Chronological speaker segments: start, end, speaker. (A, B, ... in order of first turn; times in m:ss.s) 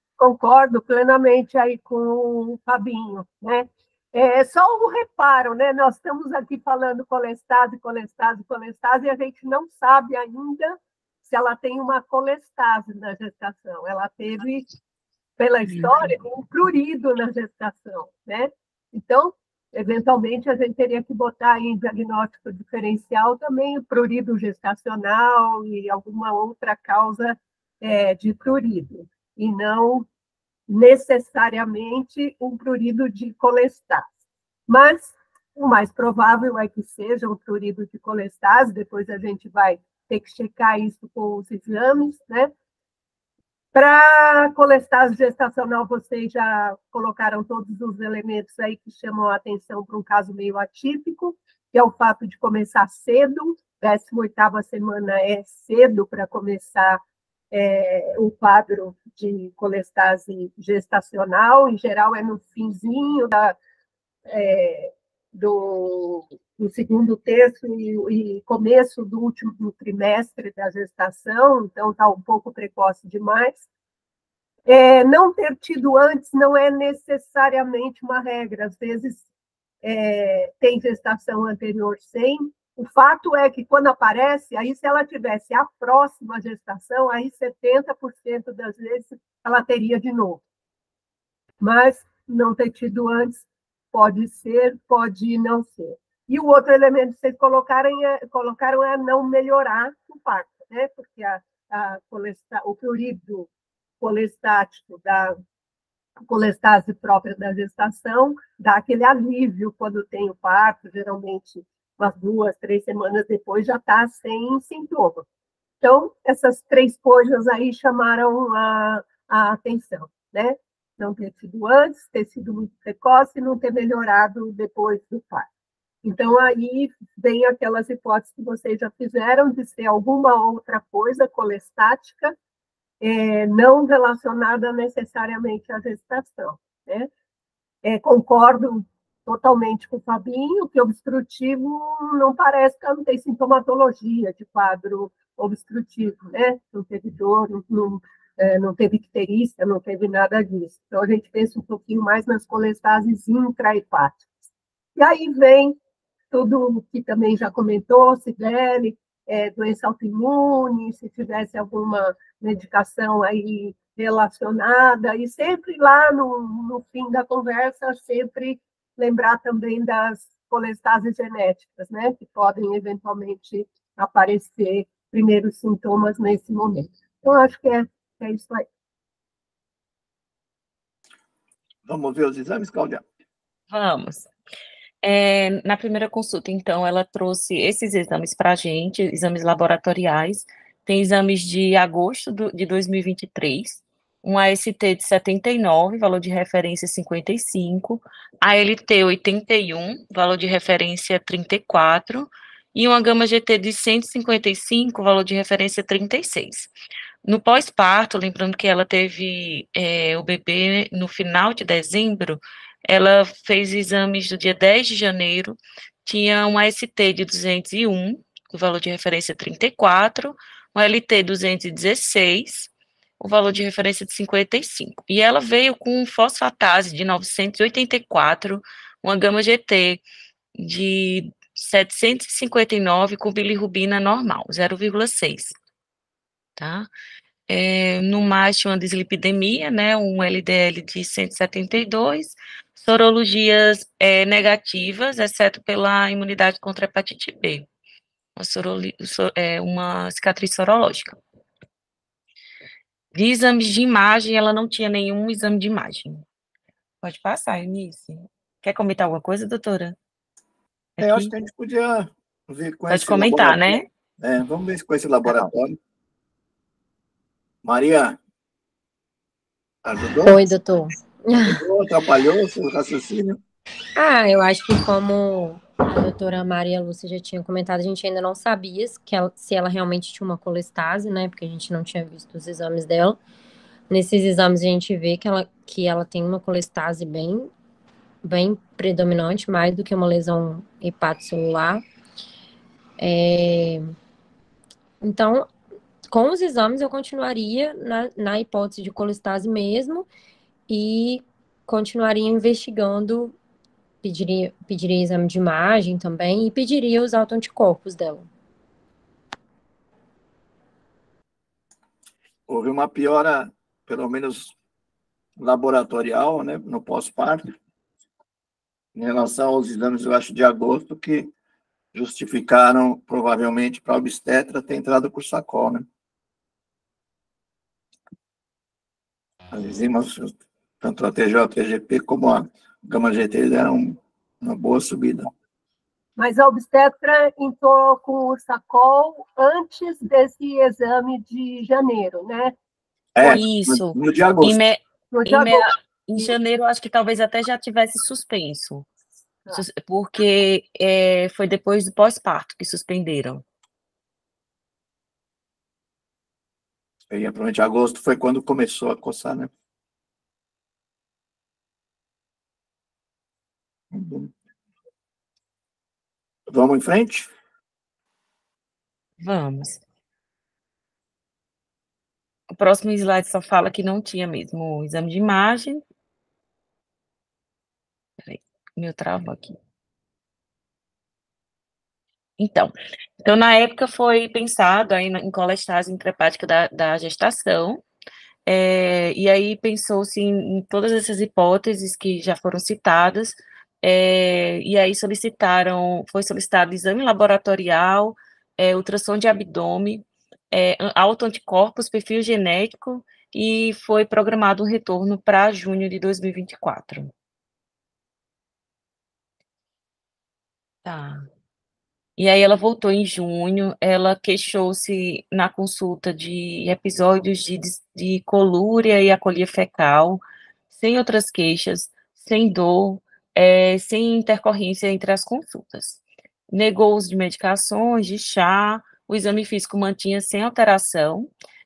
0:00.2-0:14.7 A
0:15.4-0:30.1 A
0:30.7-0:34.1 A
0:34.7-0:42.5 A
0:43.7-0:57.0 A
0:57.5-1:03.6 A
1:04.3-1:13.6 A
1:14.7-1:19.3 A
1:19.8-1:30.4 A
1:31.6-1:43.5 A
1:44.0-1:45.4 A
1:46.3-1:55.2 A
1:55.8-2:05.5 A
2:06.0-2:12.3 A
2:13.0-2:17.1 A
2:17.8-2:34.4 A
2:35.0-2:35.8 A
2:36.3-2:58.6 A
3:01.9-3:03.0 B
3:03.7-3:04.3 C
3:05.0-3:26.7 C
3:27.2-3:50.0 C
3:50.6-3:55.6 C
3:56.6-3:56.9 C
3:57.5-4:07.7 C
4:08.4-4:11.2 C
4:13.1-4:16.2 C
4:17.0-4:20.0 C
4:21.0-4:21.3 C
4:21.0-4:25.8 B
4:22.9-4:23.8 C
4:27.6-4:28.2 B
4:29.8-4:30.5 B
4:30.2-4:31.6 D
4:31.4-4:33.4 B
4:34.0-4:43.2 D
4:43.9-4:47.5 D
4:48.2-4:51.8 D
4:53.0-4:53.9 D
4:55.0-4:55.5 D
4:56.1-5:00.1 D
5:00.7-5:03.4 D
5:04.0-5:08.3 D
5:12.5-5:14.5 B
5:15.4-5:17.5 B
5:19.0-5:21.3 B
5:21.9-5:25.9 B
5:29.5-5:35.3 B
5:36.2-5:42.6 A
5:43.2-5:44.6 B
5:43.2-5:48.9 C
5:45.1-5:46.3 A
5:49.5-5:53.4 C
5:57.1-5:59.5 B
6:03.9-6:04.3 B
6:06.5-6:07.3 B
6:09.2-6:09.8 C
6:12.6-6:15.8 C
6:18.2-6:19.6 C
6:22.4-6:27.8 C
6:28.5-6:47.1 C
6:50.8-6:51.3 C
6:52.2-7:11.3 C